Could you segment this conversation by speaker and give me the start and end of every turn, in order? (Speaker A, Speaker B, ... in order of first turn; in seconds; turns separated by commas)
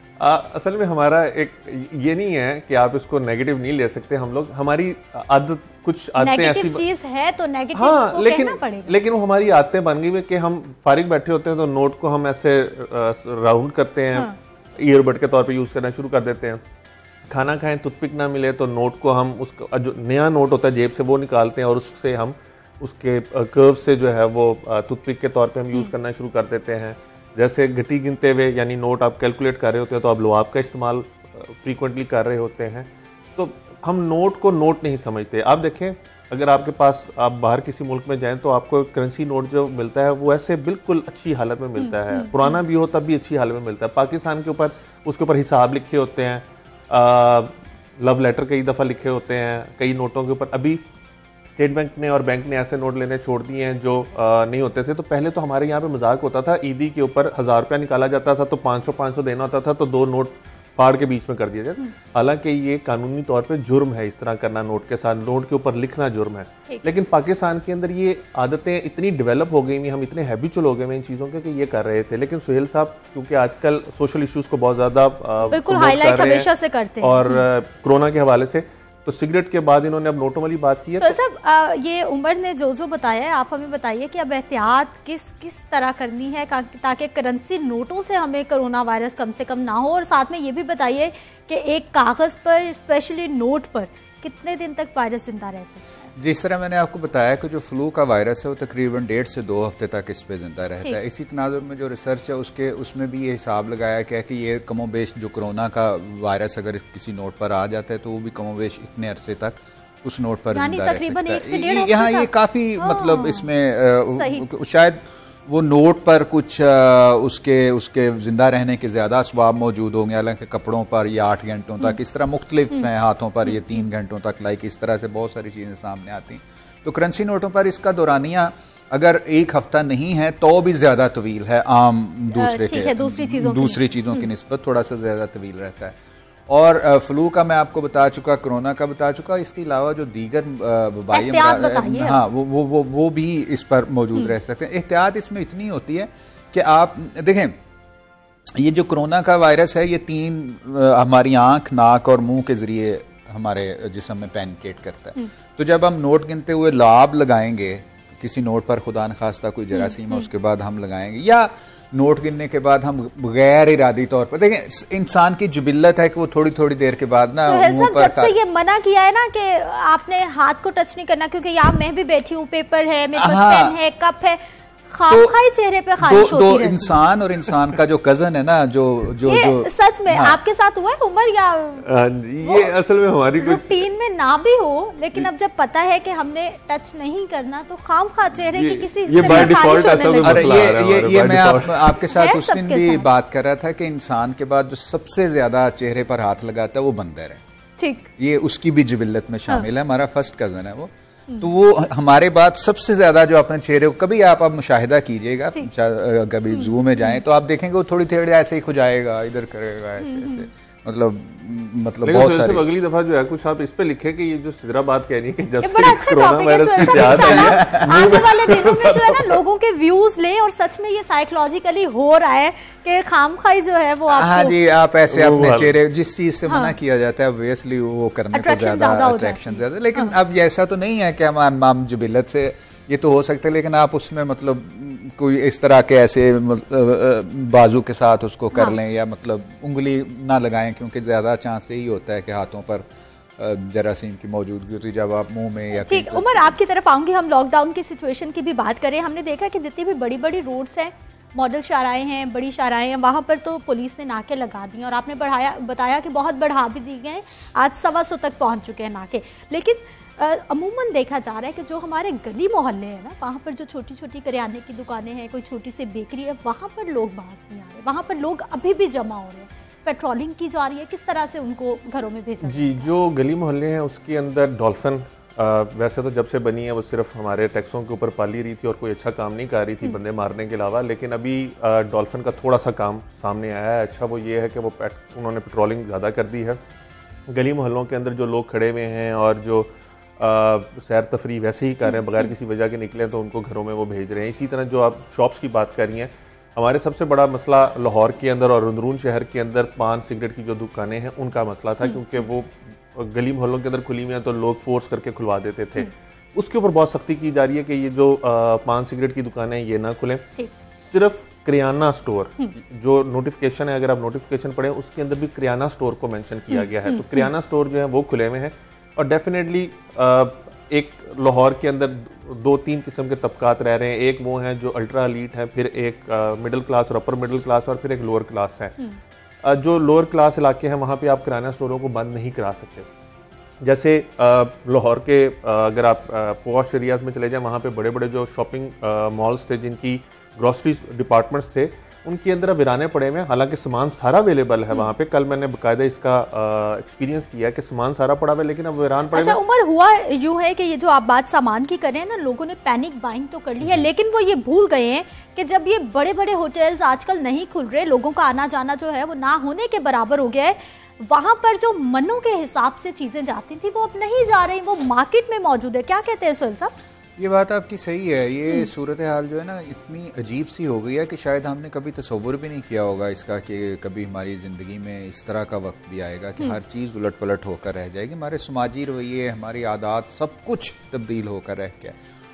Speaker A: 0.2-6.8, Speaker B: 6.2-9.0, Speaker A: 7.8-16.6, Speaker A: 17.3-50.8, Speaker B: 41.8-42.6, Speaker A: 51.5-76.5, Speaker B: 75.5-77.5, Speaker A: 77.0-81.2, Speaker B: 81.0-96.1, Speaker C: 96.2-147.6, Speaker B: 110.5-113.5, Speaker B: 114.2-114.5, Speaker B: 132.3-134.3, Speaker B: 141.1-142.2, Speaker C: 148.5-168.4, Speaker B: 159.7-160.2, Speaker B: 167.4-176.9, Speaker C: 173.2-173.7, Speaker C: 175.1-175.3, Speaker C: 176.0-180.4, Speaker B: 179.3-181.9, Speaker A: 181.8-183.8, Speaker B: 183.4-190.8, Speaker A: 188.5-191.9, Speaker C: 189.2-197.4, Speaker B: 192.1-193.1, Speaker B: 197.8-198.1, Speaker C: 198.2-212.7, Speaker B: 206.5-207.2, Speaker B: 210.0-210.5, Speaker A: 212.0-219.4, Speaker B: 215.6-224.6, Speaker C: 216.9-218.1, Speaker C: 224.1-246.6, Speaker A: 225.1-225.7, Speaker B: 226.5-226.7, Speaker B: 228.3-230.1, Speaker B: 245.8-272.9, Speaker A: 272.4-286.6, Speaker A: 287.3-310.3, Speaker A: 310.8-328.8, Speaker B: 316.5-317.3, Speaker A: 329.4-332.9, Speaker A: 333.6-349.4, Speaker B: 349.1-366.7, Speaker C: 367.2-382.0